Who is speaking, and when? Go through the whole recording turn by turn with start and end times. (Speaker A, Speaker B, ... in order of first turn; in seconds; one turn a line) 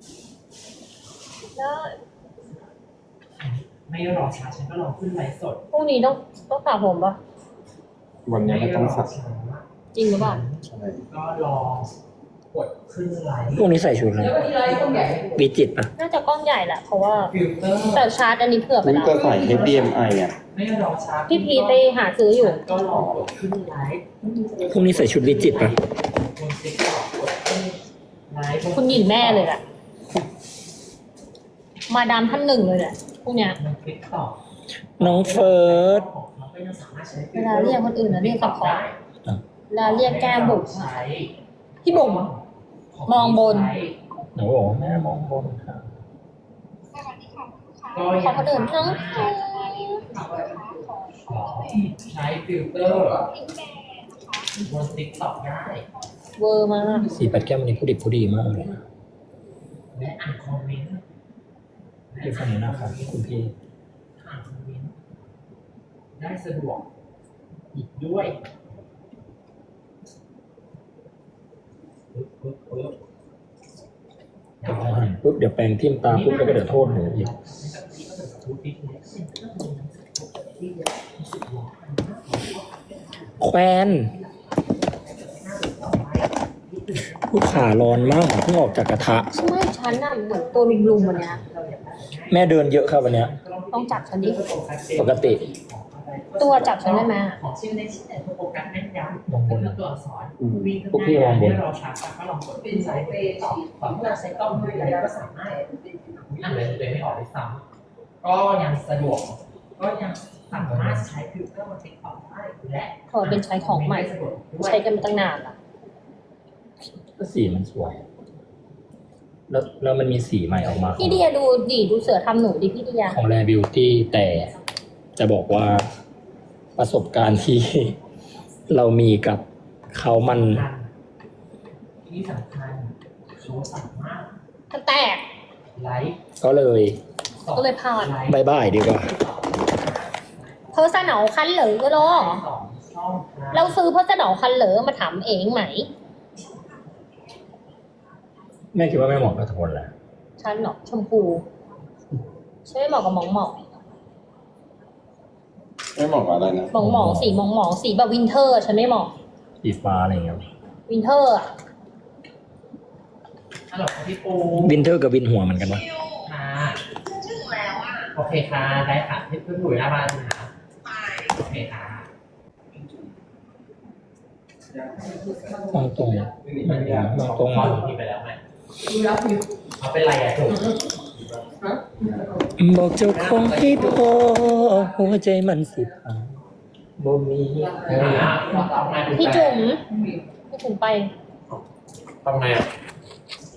Speaker A: 1.6-2.0
Speaker B: 3.4-5.6
Speaker A: 5.7-7.2
Speaker C: 8.3-9.2
Speaker B: 8.4-11.9
Speaker A: 9.9-10.4
Speaker C: 10.7-11.0
Speaker B: 12.5-15.4
Speaker D: 13.5-14.5
Speaker E: 14.2-15.4
Speaker D: 15.3-15.9
Speaker A: 16.0-17.3
Speaker B: 17.3-18.1
Speaker A: 17.9-19.2
Speaker C: 18.8-20.4
Speaker E: 19.0-19.9
Speaker B: 19.3-29.6
Speaker A: 21.3-22.6
Speaker C: 22.8-23.3
Speaker D: 24.6-25.8
Speaker A: 28.7-29.6
Speaker A: 31.9-33.6
Speaker B: 33.4-34.4
Speaker D: 35.0-36.1
Speaker B: 35.0-39.0
Speaker A: 37.3-38.8
Speaker A: 39.7-40.9
Speaker B: 39.8-44.0
Speaker A: 41.8-42.3
Speaker A: 43.1-43.7
Speaker D: 44.4-45.9
Speaker A: 47.8-50.4
Speaker B: 47.9-49.4
Speaker E: 50.0-50.9
Speaker B: 51.2-53.2
Speaker E: 52.9-53.3
Speaker B: 54.6-55.9
Speaker A: 56.4-57.1
Speaker E: 56.9-57.3
Speaker D: 57.1-58.8
Speaker B: 59.9-61.0
Speaker B: 62.1-63.2
Speaker D: 62.2-63.5
Speaker B: 64.2-65.0
Speaker B: 66.2-66.9
Speaker B: 67.7-68.4
Speaker B: 72.1-73.0
Speaker B: 74.6-75.2
Speaker D: 74.6-77.3
Speaker B: 76.0-105.6
Speaker D: 83.4-84.1
Speaker D: 87.3-89.3
Speaker A: 89.3-91.4
Speaker D: 92.3-93.3
Speaker A: 93.7-94.4
Speaker D: 95.0-95.5
Speaker A: 96.4-97.4
Speaker D: 99.3-99.8
Speaker C: 100.4-100.7
Speaker D: 100.9-101.6
Speaker E: 102.6-106.8
Speaker B: 106.3-107.6
Speaker B: 108.2-115.2
Speaker D: 110.5-111.1
Speaker A: 113.1-114.1
Speaker A: 114.6-115.6
Speaker D: 117.2-118.0
Speaker D: 119.5-121.2
Speaker B: 120.5-121.0
Speaker A: 121.0-123.2
Speaker D: 123.1-124.5
Speaker B: 124.3-124.6
Speaker D: 125.2-125.8
Speaker D: 126.8-128.0
Speaker D: 128.7-130.7
Speaker B: 130.0-130.9
Speaker B: 132.1-134.3
Speaker A: 134.7-135.2
Speaker B: 135.8-136.2
Speaker D: 136.4-137.0
Speaker B: 137.4-141.3
Speaker A: 137.5-138.2
Speaker D: 138.3-139.1
Speaker A: 140.7-142.4
Speaker B: 141.9-143.8
Speaker A: 143.5-145.9
Speaker D: 148.7-149.9
Speaker A: 150.4-151.4
Speaker A: 152.7-153.6
Speaker C: 156.0-156.8
Speaker A: 156.7-159.1
Speaker D: 156.8-157.4
Speaker D: 159.6-160.4
Speaker A: 160.9-161.5
Speaker B: 163.7-164.8
Speaker D: 164.6-165.8
Speaker B: 166.2-166.8
Speaker B: 168.1-170.5
Speaker B: 171.1-172.1
Speaker C: 174.7-175.7
Speaker E: 175.0-176.3
Speaker D: 175.7-177.8
Speaker C: 176.4-177.7
Speaker B: 176.6-178.4
Speaker E: 178.8-179.5
Speaker B: 179.8-180.7
Speaker C: 181.2-181.5
Speaker E: 181.6-182.5
Speaker D: 182.6-186.3
Speaker B: 183.0-184.3
Speaker D: 187.0-188.4
Speaker E: 187.6-189.1
Speaker B: 187.9-189.7
Speaker A: 189.1-189.8
Speaker E: 189.9-190.3
Speaker A: 190.5-191.1
Speaker B: 192.2-192.7